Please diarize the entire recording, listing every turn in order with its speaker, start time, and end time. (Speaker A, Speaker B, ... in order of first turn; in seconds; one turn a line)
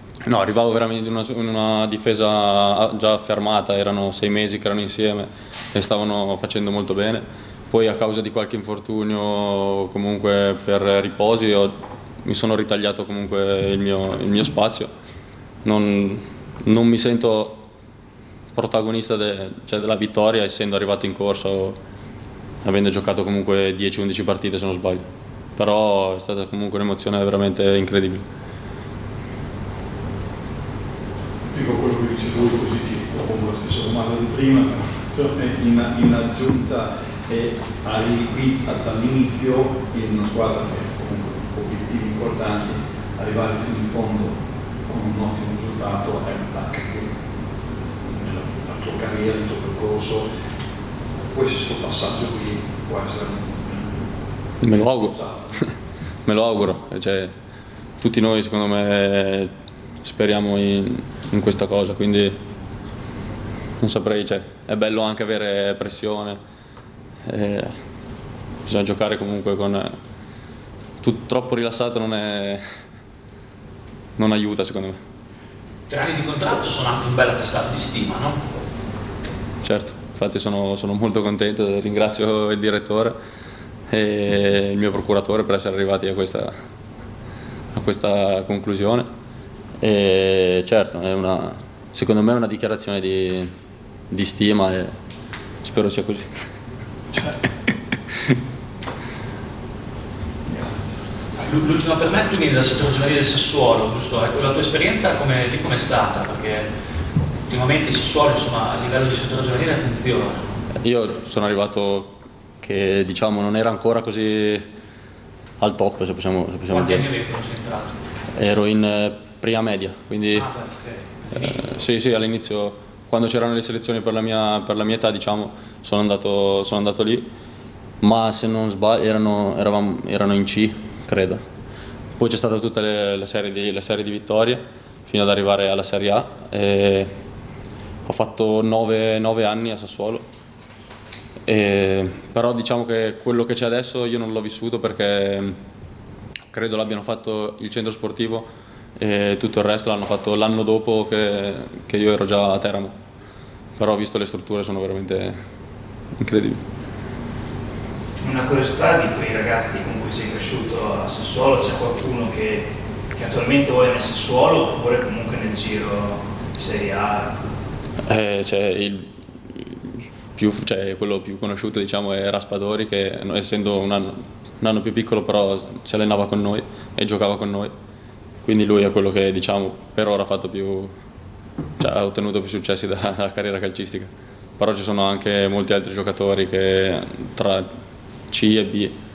Speaker A: 0.2-14.9
Speaker A: 15.6-17.6
Speaker A: 18.5-21.8
Speaker A: 22.6-25.0
Speaker A: 25.6-28.2
Speaker B: 31.5-44.3
Speaker B: 44.9-47.1
Speaker B: 48.0-50.3
Speaker B: 51.2-54.1
Speaker A: 54.6-55.1
Speaker B: 54.9-55.6
Speaker A: 56.2-57.3
Speaker A: 58.0-59.5
Speaker A: 60.0-62.4
Speaker A: 63.8-66.4
Speaker A: 67.3-67.7
Speaker A: 68.7-69.9
Speaker A: 71.0-72.6
Speaker A: 74.2-75.0
Speaker C: 75.9-78.4
Speaker A: 79.6-83.1
Speaker A: 83.9-86.5
Speaker A: 87.7-89.1
Speaker A: 89.8-93.5
Speaker A: 94.1-94.9
Speaker A: 95.6-96.2
Speaker B: 97.1-97.5
Speaker B: 100.5-101.0
Speaker C: 101.4-106.7
Speaker C: 107.5-110.6
Speaker A: 110.8-114.6
Speaker A: 115.6-117.0
Speaker C: 116.7-117.9
Speaker A: 118.3-120.5
Speaker C: 120.3-121.9
Speaker A: 121.4-127.2
Speaker A: 128.0-131.4
Speaker A: 132.2-137.1
Speaker A: 138.1-140.2
Speaker A: 141.4-145.6
Speaker A: 146.5-148.4
Speaker A: 149.0-152.9
Speaker A: 153.8-155.4
Speaker A: 156.2-156.6
Speaker D: 158.2-167.4
Speaker A: 168.1-177.7
Speaker A: 178.4-180.9
Speaker A: 181.8-187.6
Speaker A: 188.3-188.9